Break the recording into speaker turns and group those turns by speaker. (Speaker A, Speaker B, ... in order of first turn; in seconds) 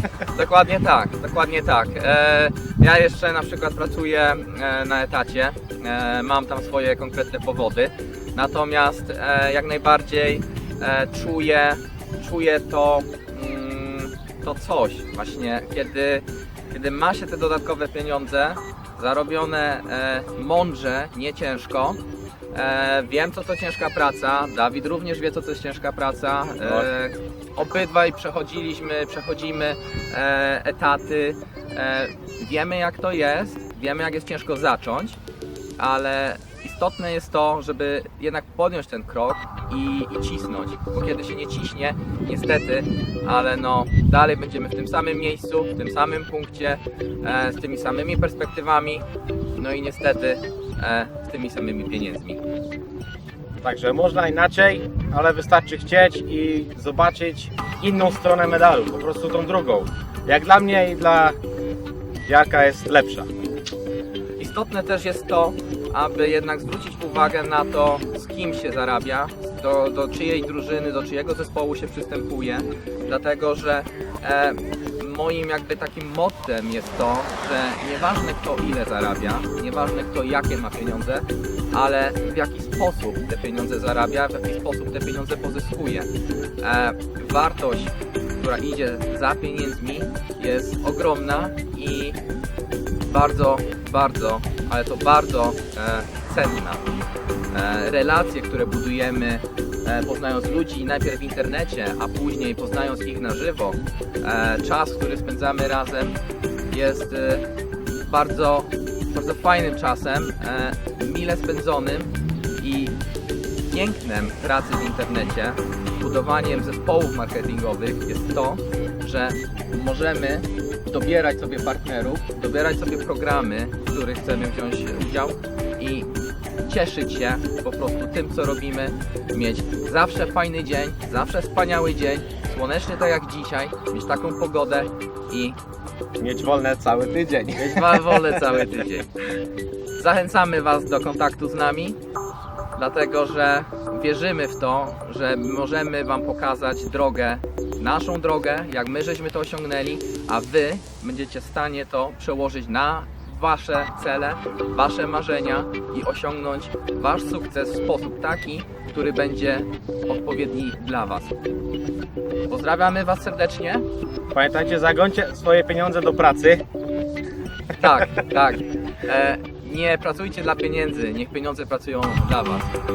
Speaker A: 0.3-22.0, 22.5-35.2, 35.8-52.4, 64.4-86.1, 86.6-92.2, 93.1-96.8, 97.5-106.2, 106.7-107.4, 108.0-113.0, 113.7-126.1, 126.7-135.6, 137.6-139.1, 140.0-142.0, 142.8-161.3, 162.5-163.8, 167.8-172.7
Speaker B: 26.6-26.9, 53.6-61.4, 62.2-63.3, 136.2-138.7, 164.3-166.6